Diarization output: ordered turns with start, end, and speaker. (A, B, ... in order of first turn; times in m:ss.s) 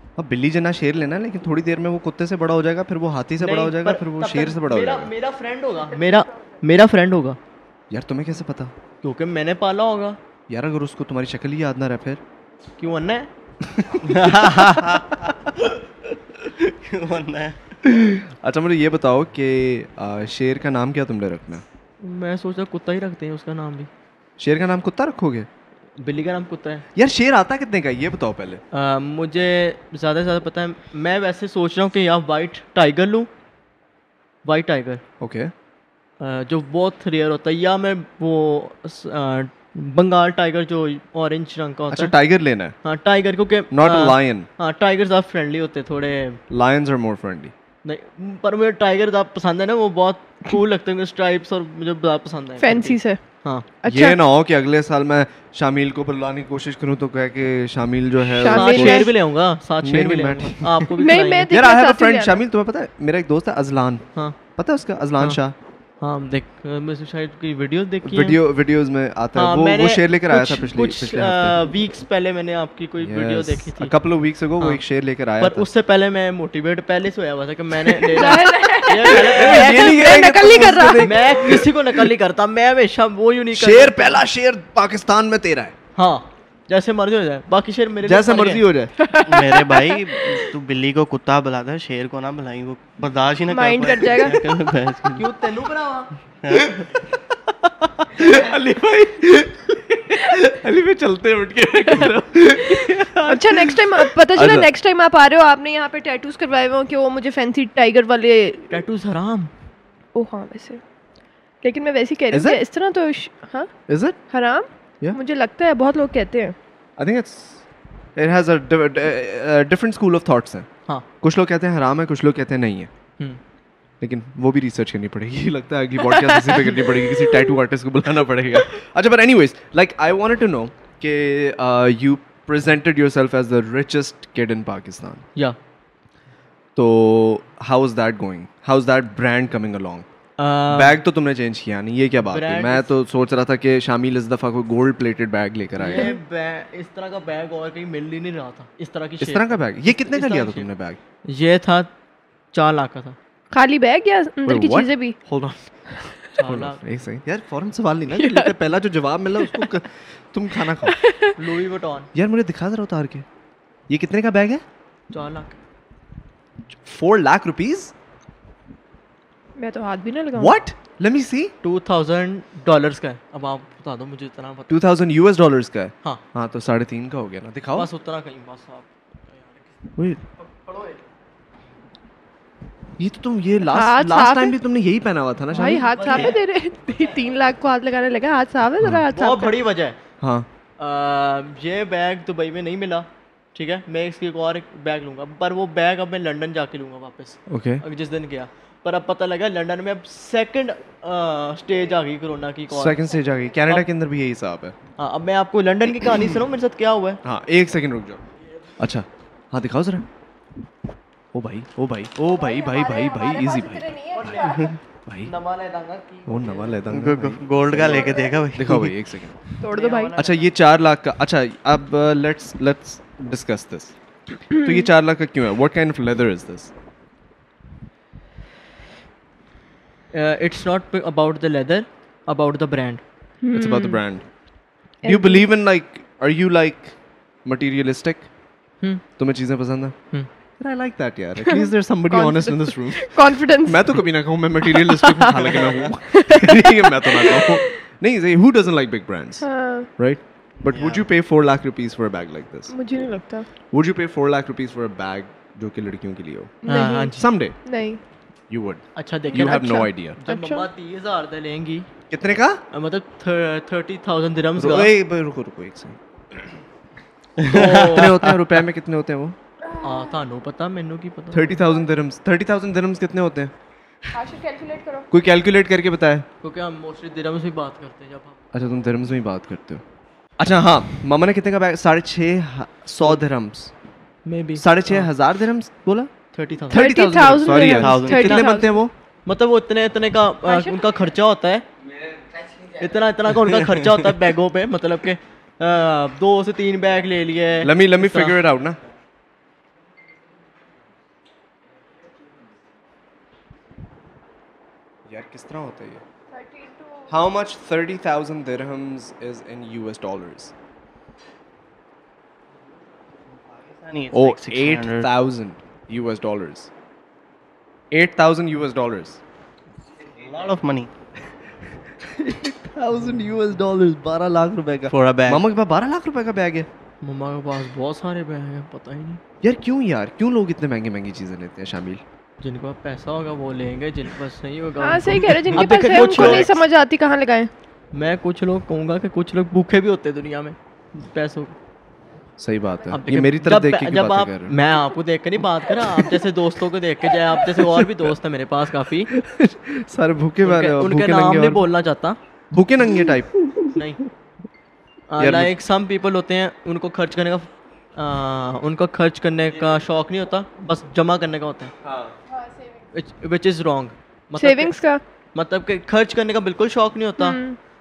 0:00.2-0:05.1 A
0:03.4-0:07.4 B
0:07.9-0:08.7 A
0:09.0-0:10.2 B
0:10.5-0:12.2 A
0:12.8-0:13.3 B
0:13.8-0:14.5 A
0:14.0-0:15.2 C
0:16.4-0:17.6 C
0:17.8-0:21.6 A
0:22.0-0:23.9 B
0:24.4-0:25.5 A
0:26.0-0:26.8 B
0:26.9-0:28.6 A
0:28.7-0:33.3 B
0:34.4-0:35.0 B
0:35.2-0:35.5 A
0:36.2-0:42.2 B
0:41.9-0:42.7 A
0:42.8-0:46.4 B
0:43.7-0:44.5 A
0:46.5-0:47.5 A
0:47.8-0:53.7 B
0:52.6-0:53.2 D
0:53.8-0:54.2 D
0:53.8-0:59.1 A
0:58.3-0:59.1 D
0:58.4-1:01.5 B
0:59.8-1:00.9 A
1:01.0-1:02.4 D
1:01.5-1:05.5 A
1:06.0-1:08.4 B
1:08.0-1:11.6 A
1:09.3-1:13.9 B
1:13.0-1:15.6 A
1:15.4-1:20.2 B
1:18.1-1:21.2 D
1:19.1-1:21.9 A
1:21.0-1:24.2 B
1:23.5-1:25.8 A
1:26.0-1:28.6 B
1:28.0-1:29.0 A
1:29.0-1:30.4 D
1:29.2-1:35.2 C
1:33.5-1:34.4 D
1:35.2-1:36.1 B
1:36.4-1:36.9 C
1:36.5-1:36.8 A
1:37.5-1:44.7 A
1:43.2-1:48.7 D
1:48.7-1:49.5 B
1:50.1-1:50.8 D
1:51.6-1:53.7 D
1:52.3-1:52.6 A
1:53.9-1:54.2 A
1:54.3-1:56.5 D
1:57.0-1:57.6 A
1:58.2-2:00.7 A
2:01.2-2:02.9 A
2:04.0-2:15.2 A
2:06.1-2:07.5 D
2:16.8-2:20.0 A
2:20.4-2:21.0 B
2:20.7-2:26.1 A
2:22.2-2:22.9 B
2:25.8-2:30.7 B
2:29.2-2:31.0 A
2:31.3-2:31.9 B
2:32.5-2:33.2 B
2:33.5-2:35.2 D
2:34.4-2:35.7 A
2:36.3-2:36.8 B
2:36.4-2:41.0 A
2:38.1-2:38.6 D
2:39.4-2:39.7 D
2:40.9-2:41.3 D
2:41.4-2:42.1 B
2:42.1-2:43.2 A
2:43.9-2:44.6 A
2:45.1-2:45.6 B
2:46.8-2:47.9 A
2:49.6-2:50.6 D
2:50.4-2:51.5 A
2:51.6-2:54.8 B
2:54.7-2:57.9 A
2:57.7-2:59.6 B
3:00.4-3:01.0 B
3:03.0-3:06.3 A
3:03.7-3:04.6 D
3:05.5-3:06.4 B
3:05.5-3:09.6 D
3:09.1-3:10.0 B
3:10.2-3:10.5 A
3:10.8-3:23.0 B
3:17.5-3:17.8 A
3:22.7-3:24.8 A
3:25.0-3:27.2 B
3:27.2-3:28.2 A
3:28.8-3:30.1 A
3:31.3-3:33.9 A
3:32.3-3:34.7 D
3:34.1-3:34.7 B
3:34.4-3:34.7 C
3:35.1-3:35.3 A
3:35.2-3:36.8 B
3:36.3-3:39.4 A
3:36.9-3:39.0 C
3:37.9-3:38.3 D
3:39.6-3:40.2 D
3:39.6-3:40.5 B
3:40.2-3:43.9 A
3:44.5-3:46.7 A
3:44.5-3:44.9 D
3:50.1-3:53.0 B
3:53.4-3:54.0 D
3:53.5-3:54.2 A
3:55.0-3:55.5 D
3:55.0-3:58.3 A
3:59.2-3:59.9 A
4:00.6-4:12.7 A
4:01.4-4:04.0 D
4:04.7-4:07.8 D
4:09.4-4:09.9 D
4:10.7-4:11.1 C
4:12.7-4:13.5 D
4:13.7-4:16.6 A
4:16.6-4:18.0 D
4:16.6-4:17.3 B
4:17.1-4:17.6 A
4:18.5-4:20.2 A
4:19.0-4:21.9 B
4:19.3-4:20.7 D
4:22.1-4:22.6 A
4:22.7-4:24.9 B
4:24.6-4:26.4 A
4:27.4-4:28.2 C
4:27.5-4:28.2 B
4:27.6-4:29.4 A
4:29.6-4:30.2 D
4:29.8-4:31.6 B
4:31.3-4:33.5 A
4:34.1-4:35.1 D
4:35.1-4:36.2 A
4:36.4-4:38.4 B
4:38.5-4:39.8 A
4:40.4-4:43.7 A
4:44.2-4:45.1 B
4:44.6-4:46.1 A
4:46.3-4:46.9 B
4:46.7-4:48.9 A
4:46.7-4:48.8 D
4:47.6-4:48.5 C
4:49.2-4:51.6 B
4:50.4-4:50.8 D
4:52.8-4:58.4 B
4:57.6-4:58.8 A
5:05.1-5:06.0 A
5:06.3-5:07.1 D
5:07.1-5:10.5 A
5:13.4-5:15.1 C
5:14.1-5:16.7 A
5:17.9-5:19.2 A
5:20.1-5:20.9 C
5:22.0-5:26.7 A
5:24.9-5:25.4 C
5:27.0-5:29.2 B
5:29.4-5:32.0 A
5:32.4-5:36.6 B
5:34.8-5:37.5 D
5:35.7-5:36.5 A
5:37.9-5:41.5 B
5:42.4-5:44.6 A
5:42.9-5:49.1 B
5:47.5-5:47.9 A
5:49.1-5:51.6 A
5:50.4-5:52.2 B
5:52.5-5:53.5 A
5:53.7-5:54.0 B
5:55.1-6:01.7 B
5:55.2-5:55.5 A
6:01.8-6:02.1 A
6:02.3-6:02.8 D
6:02.9-6:04.7 B
6:04.4-6:05.0 D
6:05.3-6:07.4 B
6:07.2-6:07.6 D